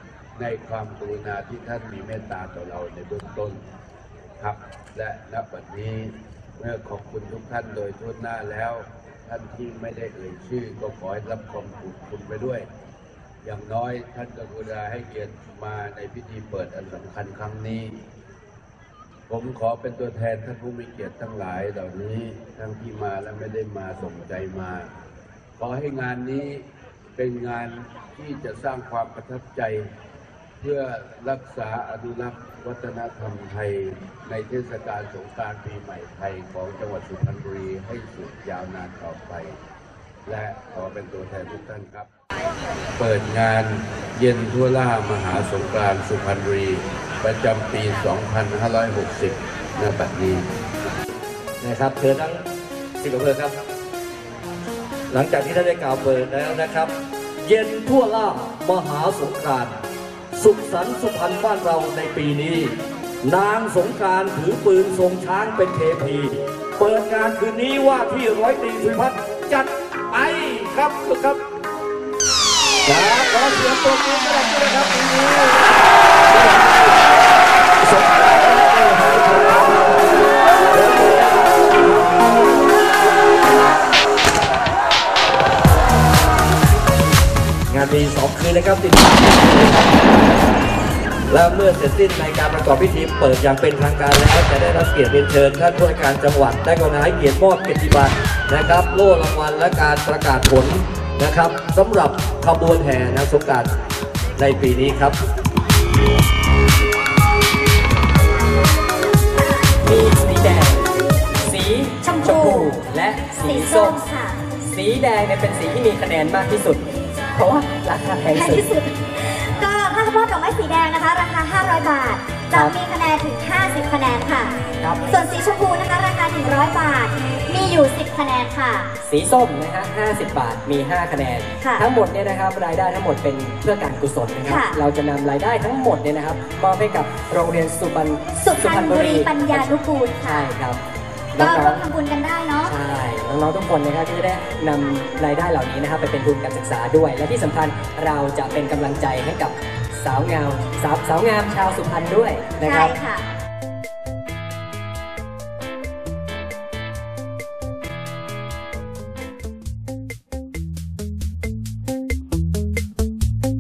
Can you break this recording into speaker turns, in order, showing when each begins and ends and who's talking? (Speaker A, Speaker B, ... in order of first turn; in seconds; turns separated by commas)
Speaker A: 0.4-3.6, Speaker A: 4.4-12.7, Speaker A: 13.4-18.0, Speaker A: 19.3-24.9, Speaker A: 25.6-29.9, Speaker A: 30.6-39.6, Speaker A: 40.3-42.1, Speaker A: 43.0-50.5, Speaker B: 51.6-52.4, Speaker B: 53.0-53.6, Speaker B: 55.1-56.9, Speaker B: 57.5-59.8, Speaker B: 60.3-71.4, Speaker B: 72.8-75.8, Speaker B: 76.3-76.9, Speaker B: 77.8-81.7, Speaker B: 87.7-90.0, Speaker B: 91.3-103.8, Speaker B: 104.4-105.2, Speaker C: 109.8-114.0, Speaker D: 112.0-112.7, Speaker D: 113.4-114.4, Speaker C: 114.6-118.7, Speaker D: 118.3-128.9, Speaker C: 124.8-125.1, Speaker C: 129.0-139.7, Speaker D: 131.6-131.9, Speaker D: 134.5-134.8, Speaker D: 138.4-140.5, Speaker C: 140.2-140.8, Speaker C: 141.3-141.8, Speaker D: 141.4-142.7, Speaker C: 142.7-152.9, Speaker D: 152.6-153.3